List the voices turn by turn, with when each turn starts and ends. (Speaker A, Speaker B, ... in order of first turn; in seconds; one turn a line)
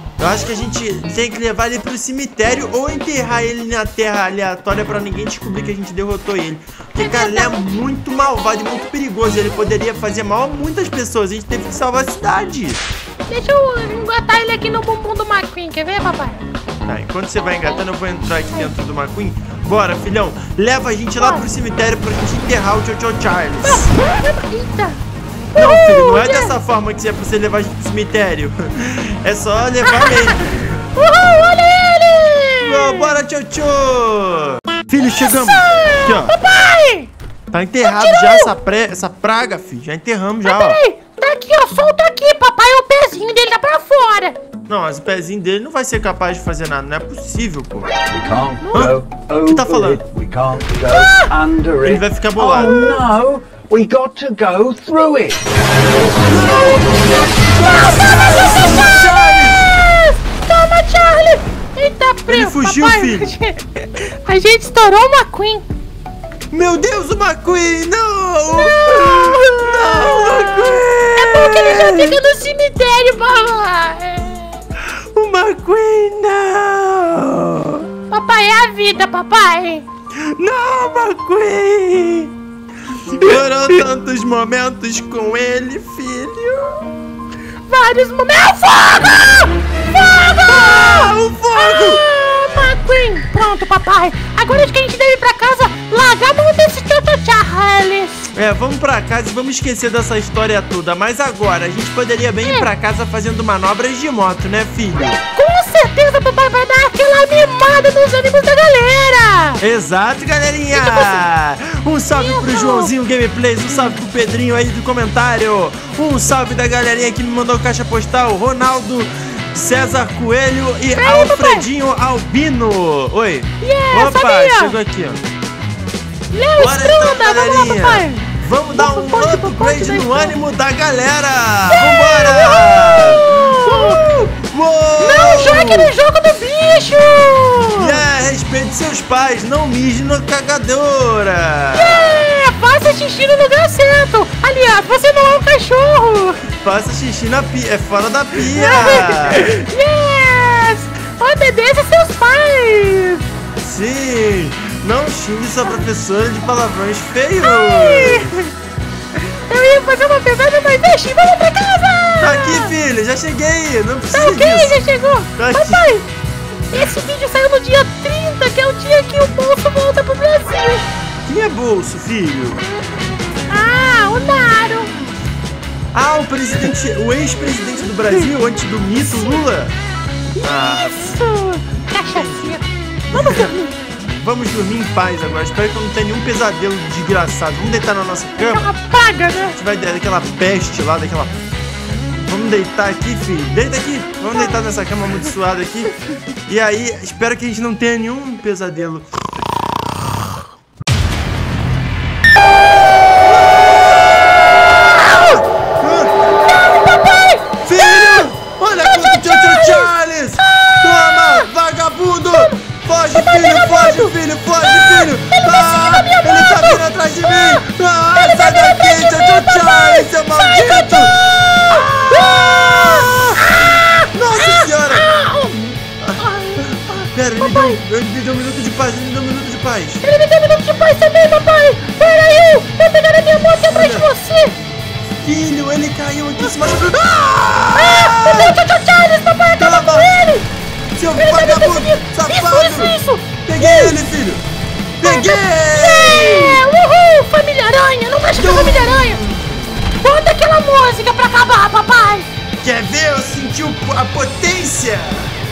Speaker A: 0.2-12.8
Speaker B: 7.0-7.6
Speaker B: 13.3-16.4
Speaker A: 16.8-23.9
Speaker B: 21.2-21.4
Speaker B: 23.6-25.0
Speaker B: 25.5-26.6
Speaker A: 25.6-30.4
Speaker B: 29.8-33.1
Speaker A: 32.6-36.3
Speaker B: 35.4-37.1
Speaker A: 37.5-40.8
Speaker B: 37.8-38.5
Speaker B: 40.4-44.4
Speaker A: 44.7-47.9
Speaker C: 48.1-55.4
Speaker A: 48.7-50.0
Speaker A: 51.8-53.0
Speaker A: 56.2-59.7
Speaker B: 57.7-59.0
Speaker B: 59.8-65.7
Speaker A: 62.3-63.3
Speaker A: 66.5-72.2
Speaker B: 68.5-74.5
Speaker A: 75.0-77.9
Speaker B: 78.1-79.8
Speaker A: 80.2-82.3
Speaker A: 83.1-86.8
Speaker B: 87.7-98.1
Speaker A: 90.5-92.0
Speaker A: 98.3-105.2
Speaker B: 102.4-102.7
Speaker B: 105.3-109.6
Speaker A: 109.6-125.2
Speaker B: 110.7-111.2
Speaker B: 112.1-112.9
Speaker B: 121.0-121.7
Speaker B: 123.6-124.8
Speaker B: 126.3-130.3
Speaker A: 126.6-135.9
Speaker B: 131.7-134.0
Speaker B: 135.0-138.0
Speaker A: 137.8-142.2
Speaker B: 141.7-146.4
Speaker A: 146.6-149.5
Speaker B: 148.5-153.2
Speaker A: 153.6-158.3
Speaker B: 157.4-158.5
Speaker B: 159.5-162.7
Speaker A: 162.2-164.8
Speaker B: 164.1-166.1
Speaker A: 165.4-165.9
Speaker B: 166.7-170.8
Speaker A: 171.3-172.6
Speaker B: 173.5-174.9
Speaker A: 175.9-179.7
Speaker B: 180.3-183.8
Speaker A: 180.4-181.2
Speaker A: 182.0-182.6
Speaker A: 183.1-188.7
Speaker B: 188.4-189.6
Speaker A: 189.5-191.4
Speaker A: 192.2-195.9
Speaker A: 196.5-199.1
Speaker A: 203.4-206.1
Speaker B: 206.5-207.5
Speaker A: 207.6-221.2
Speaker B: 208.8-209.9
Speaker B: 210.9-211.4
Speaker B: 212.3-212.6
Speaker B: 213.1-217.6
Speaker B: 218.1-227.8
Speaker A: 221.7-223.4
Speaker A: 224.1-225.1
Speaker A: 227.1-230.0
Speaker B: 230.0-234.6
Speaker A: 233.6-234.1
Speaker A: 235.2-238.6
Speaker B: 237.7-240.5
Speaker A: 239.6-240.1
Speaker A: 241.0-244.4
Speaker B: 241.1-244.0
Speaker A: 245.0-246.6
Speaker B: 245.0-249.2
Speaker A: 248.4-249.6
Speaker B: 250.0-252.3
Speaker A: 252.6-255.3